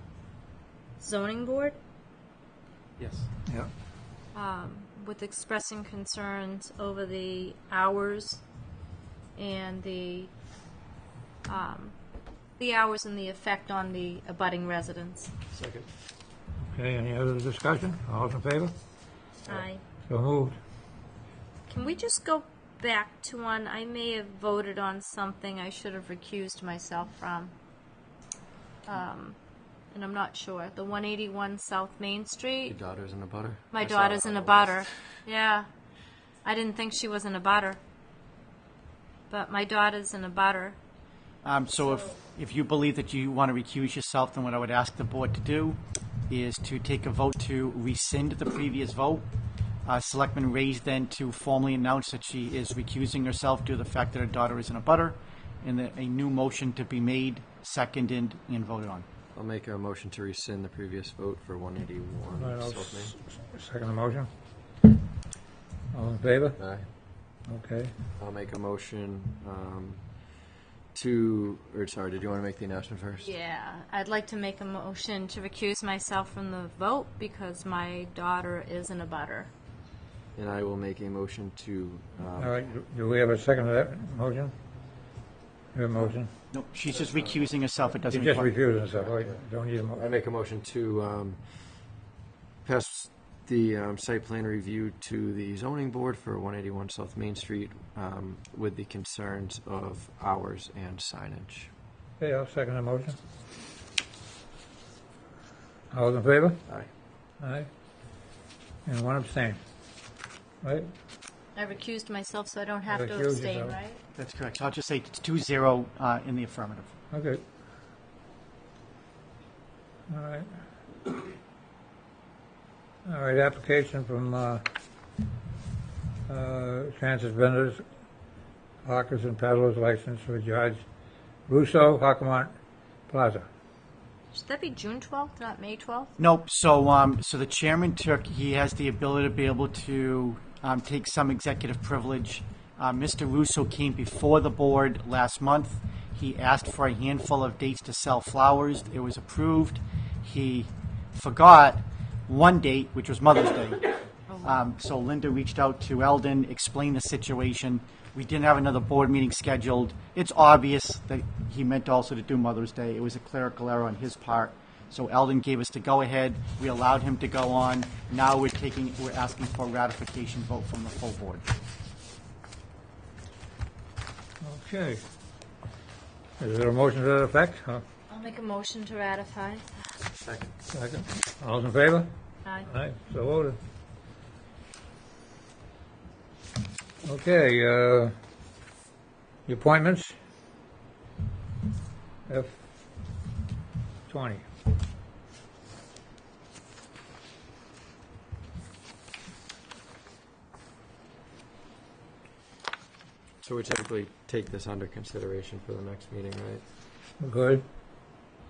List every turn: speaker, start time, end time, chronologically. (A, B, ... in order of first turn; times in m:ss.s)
0:01.0-0:01.8 A
0:03.0-0:03.3 B
0:04.3-0:08.4 A
0:09.4-0:10.3 A
0:11.5-0:12.0 A
0:12.6-0:15.3 A
0:15.5-0:15.9 C
0:16.7-0:18.7 D
0:19.5-0:19.8 A
0:20.1-0:20.6 D
0:21.7-0:27.5 A
0:28.9-0:29.4 A
0:29.9-0:32.8 A
0:32.7-0:34.8 C
0:33.7-0:35.7 A
0:36.4-0:37.8 A
0:39.3-0:40.8 A
0:41.4-0:49.3 B
0:41.8-0:42.1 A
0:49.9-0:59.1 B
0:59.3-1:03.2 C
1:02.4-1:04.3 D
1:05.9-1:06.6 D
1:06.6-1:06.8 C
1:07.5-1:07.9 D
1:08.2-1:10.0 C
1:10.9-1:13.3 C
1:13.2-1:19.5 A
1:20.4-1:22.6 C
1:22.4-1:24.5 D
1:25.7-1:26.3 D
1:26.0-1:28.5 B
1:28.1-1:30.0 D
1:28.8-1:29.4 C
1:30.0-1:31.4 C
1:32.6-1:41.7 C
1:42.2-1:43.2 D
1:45.9-1:46.6 D
1:47.4-1:47.7 D
1:48.9-1:49.6 D
1:50.6-1:50.9 D
1:51.6-1:54.0 A
1:52.9-1:53.8 D
1:54.2-1:56.9 B
1:57.1-1:57.4 D
2:00.1-2:00.6 D
2:03.0-2:04.6 D
2:06.3-2:07.8 D
2:08.8-2:10.8 D
2:11.5-2:12.5 D
2:13.1-2:13.5 D
2:14.3-2:16.2 A
2:16.2-2:33.8 B
2:34.3-2:34.6 A
2:34.4-2:51.5 B
2:54.4-2:55.0 D
2:56.4-2:57.8 D
2:58.1-2:59.7 A
3:00.2-3:00.5 C
3:00.7-3:02.1 D
3:02.7-3:03.6 D
3:07.0-3:08.1 D
3:09.5-3:10.1 D
3:12.3-3:12.6 D
3:14.1-3:14.4 D
3:23.4-3:26.6 C
3:27.2-3:27.6 D